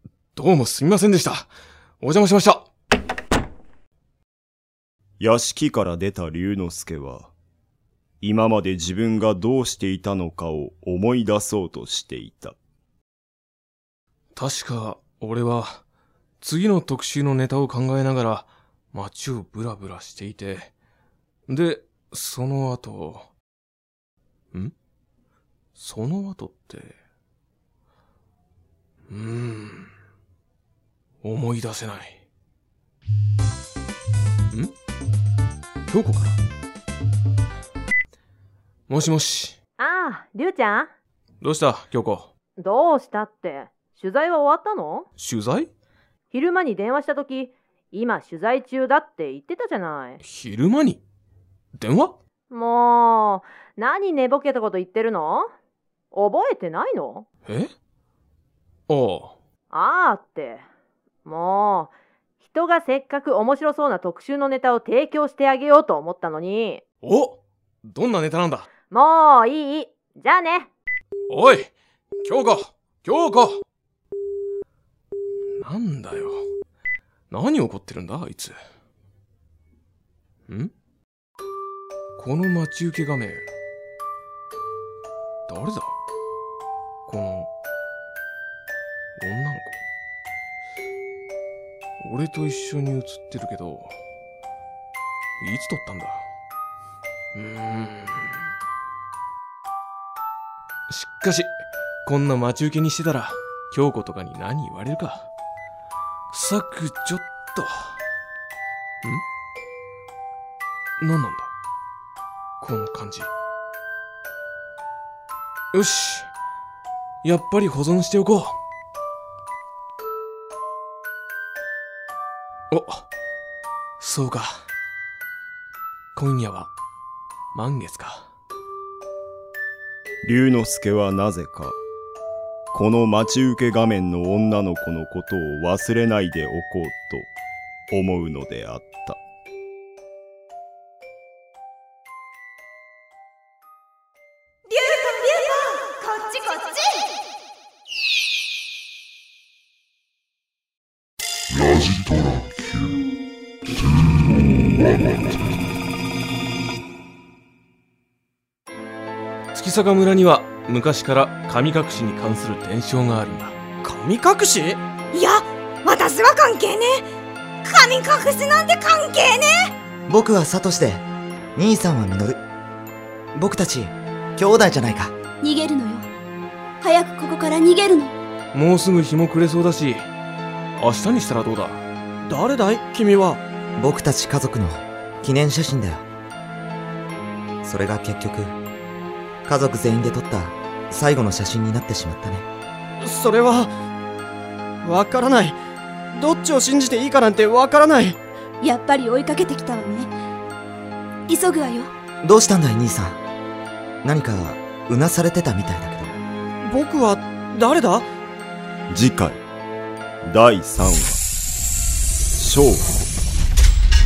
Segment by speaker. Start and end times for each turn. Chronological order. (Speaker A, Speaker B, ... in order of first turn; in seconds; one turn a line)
Speaker A: 0.4-1.5
Speaker A: 2.0-2.7
Speaker B: 5.2-7.3
Speaker B: 8.2-12.6
Speaker A: 14.3-15.8
Speaker A: 16.4-20.7
Speaker A: 21.5-23.3
Speaker A: 25.8-27.0
Speaker A: 29.1-29.9
Speaker A: 31.2-32.2
Speaker A: 35.9-36.4
Speaker A: 38.9-39.6
Speaker C: 39.8-40.9
Speaker A: 41.4-42.3
Speaker C: 42.6-45.1
Speaker A: 45.2-45.7
Speaker C: 46.3-50.2
Speaker A: 50.2-51.0
Speaker A: 51.8-52.2
Speaker C: 52.5-55.5
Speaker C: 56.1-57.3
Speaker A: 57.5-57.7
Speaker A: 58.9-59.4
Speaker C: 59.7-60.7
Speaker C: 61.2-66.8
Speaker A: 67.0-68.7
Speaker C: 68.9-70.7
Speaker A: 71.3-73.6
Speaker A: 75.6-76.5
Speaker A: 77.3-78.6
Speaker A: 82.2-83.5
Speaker A: 85.5-86.0
Speaker A: 87.1-87.5
Speaker A: 89.2-89.8
Speaker A: 92.0-94.0
Speaker A: 95.4-96.3
Speaker A: 97.3-98.4
Speaker A: 100.9-105.3
Speaker A: 106.3-108.0
Speaker A: 111.0-111.5
Speaker A: 112.6-113.3
Speaker A: 115.7-116.3
Speaker A: 117.2-118.6
Speaker A: 122.7-123.1
Speaker A: 124.0-124.7
Speaker A: 126.2-126.7
Speaker A: 127.5-128.3
Speaker B: 130.2-131.8
Speaker B: 132.7-137.3
Speaker B: 137.9-139.2
Speaker D: 144.7-147.1
Speaker A: 159.5-163.6
Speaker E: 163.8-164.8
Speaker D: 165.1-167.1
Speaker D: 167.6-169.7
Speaker F: 170.1-171.0
Speaker F: 171.6-172.4
Speaker F: 173.3-175.2
Speaker G: 175.4-176.1
Speaker G: 176.8-178.1
Speaker A: 178.5-180.1
Speaker A: 180.8-181.8
Speaker E: 182.3-183.4
Speaker F: 183.8-186.1
Speaker F: 187.6-188.6
Speaker F: 189.4-192.5
Speaker E: 193.0-193.7
Speaker E: 194.8-195.6
Speaker E: 196.1-198.2
Speaker G: 198.6-200.1
Speaker G: 201.3-201.9
Speaker F: 202.2-203.2
Speaker F: 204.0-206.2
Speaker E: 206.6-208.1
Speaker B: 208.9-209.4
Speaker B: 210.2-211.2
Speaker B: 212.4-213.1